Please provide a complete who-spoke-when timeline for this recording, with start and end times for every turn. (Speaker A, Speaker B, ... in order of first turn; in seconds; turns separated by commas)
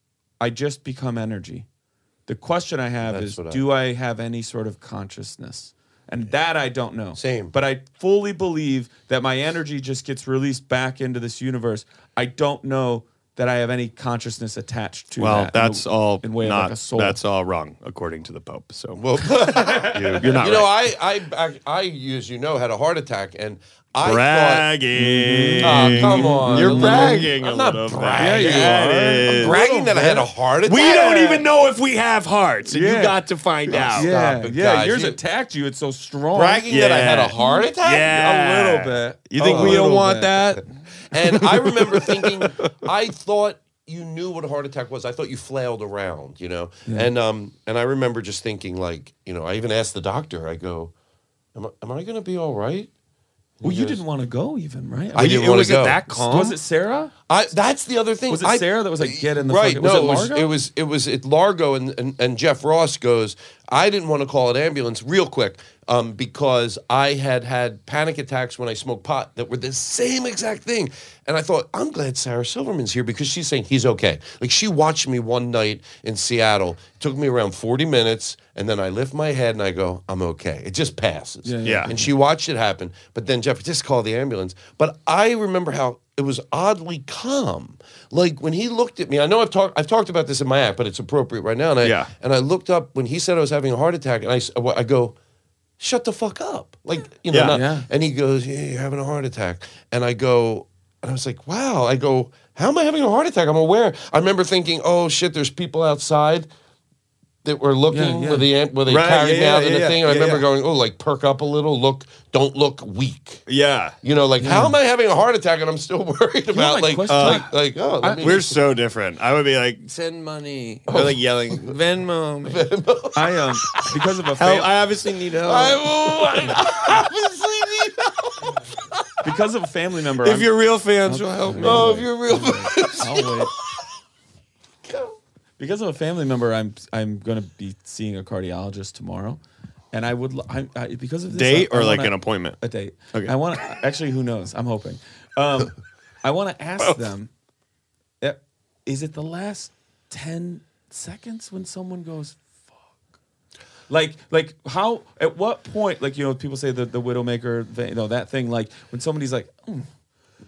Speaker A: 0.4-1.6, Speaker A: 2.3-17.2, Speaker B: 3.0-3.6, Speaker B: 7.2-7.5, Speaker C: 15.2-20.7, Speaker B: 18.9-24.7, Speaker A: 19.5-20.5, Speaker C: 24.0-29.6, Speaker A: 24.9-27.3, Speaker B: 25.6-31.4, Speaker A: 28.2-30.3, Speaker C: 30.6-34.1, Speaker A: 32.7-33.2, Speaker B: 33.7-35.2, Speaker A: 33.9-36.6, Speaker B: 36.3-38.1, Speaker C: 36.7-40.6, Speaker A: 37.4-40.5, Speaker B: 39.4-39.8, Speaker B: 41.1-50.9, Speaker C: 41.1-42.7, Speaker A: 46.9-47.1, Speaker B: 51.5-52.9, Speaker B: 53.6-54.0, Speaker A: 53.6-55.4, Speaker B: 55.1-56.0, Speaker C: 55.1-56.6, Speaker A: 56.0-57.1, Speaker B: 57.3-95.2, Speaker A: 58.3-60.5, Speaker A: 81.4-82.1, Speaker C: 81.6-81.9, Speaker C: 91.8-92.1, Speaker B: 95.8-106.5, Speaker C: 97.3-97.6, Speaker A: 97.5-97.9, Speaker B: 107.4-113.4, Speaker A: 107.9-108.5, Speaker C: 108.8-110.5, Speaker C: 113.5-113.9, Speaker B: 114.0-118.6, Speaker A: 114.4-114.7, Speaker A: 116.5-117.5, Speaker C: 117.1-117.5, Speaker A: 118.0-118.3, Speaker C: 118.1-122.6, Speaker B: 120.9-121.7, Speaker B: 122.4-123.8, Speaker A: 123.1-124.7, Speaker C: 124.4-125.8, Speaker B: 125.4-129.2, Speaker A: 129.2-133.5, Speaker C: 130.2-132.1, Speaker B: 131.6-133.8, Speaker B: 134.9-135.1, Speaker A: 135.6-139.4, Speaker A: 139.9-147.3, Speaker C: 141.3-142.6, Speaker A: 148.2-152.4, Speaker A: 153.9-159.9